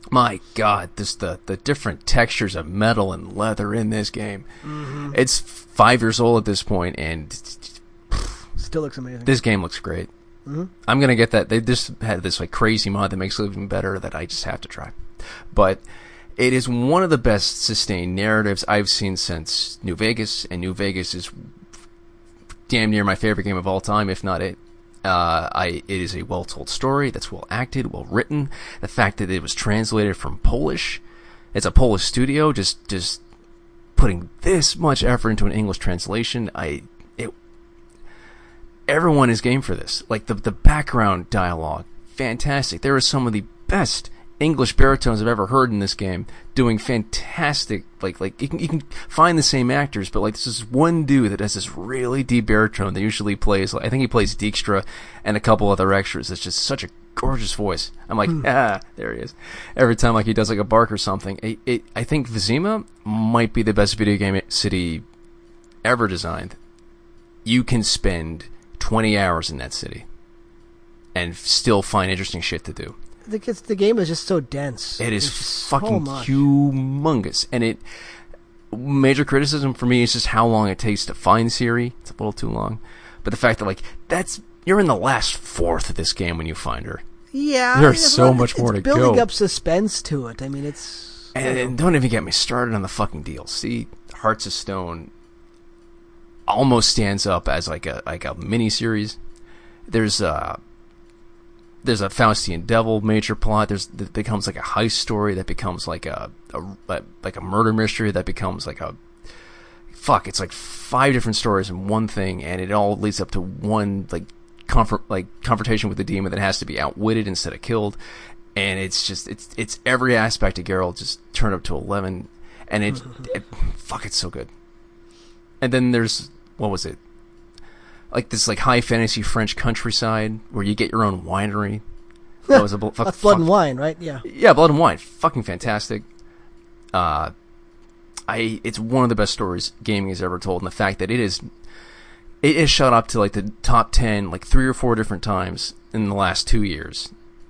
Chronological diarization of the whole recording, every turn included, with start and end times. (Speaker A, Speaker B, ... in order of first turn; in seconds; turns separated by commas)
Speaker A: 0.1-8.4, Speaker B: 4.6-5.2, Speaker B: 8.6-9.3, Speaker A: 9.3-10.1, Speaker B: 10.5-10.7, Speaker A: 10.9-15.0, Speaker A: 15.5-15.8, Speaker A: 16.4-21.3, Speaker A: 22.7-31.0, Speaker A: 31.5-33.2, Speaker A: 34.0-37.3, Speaker A: 38.9-65.0, Speaker A: 65.8-66.6, Speaker A: 67.5-70.0, Speaker A: 71.2-73.0, Speaker B: 73.3-76.4, Speaker A: 75.0-77.8, Speaker A: 78.7-87.0, Speaker B: 87.3-91.7, Speaker A: 87.7-89.3, Speaker A: 91.3-95.1, Speaker A: 96.5-99.2, Speaker A: 99.9-100.6, Speaker A: 101.8-109.0, Speaker A: 109.9-118.0, Speaker A: 118.5-124.5, Speaker A: 125.6-127.0, Speaker A: 128.1-131.8, Speaker A: 132.5-133.5, Speaker B: 132.5-134.2, Speaker A: 134.2-136.1, Speaker A: 136.9-137.3, Speaker A: 138.3-141.4, Speaker A: 142.4-147.1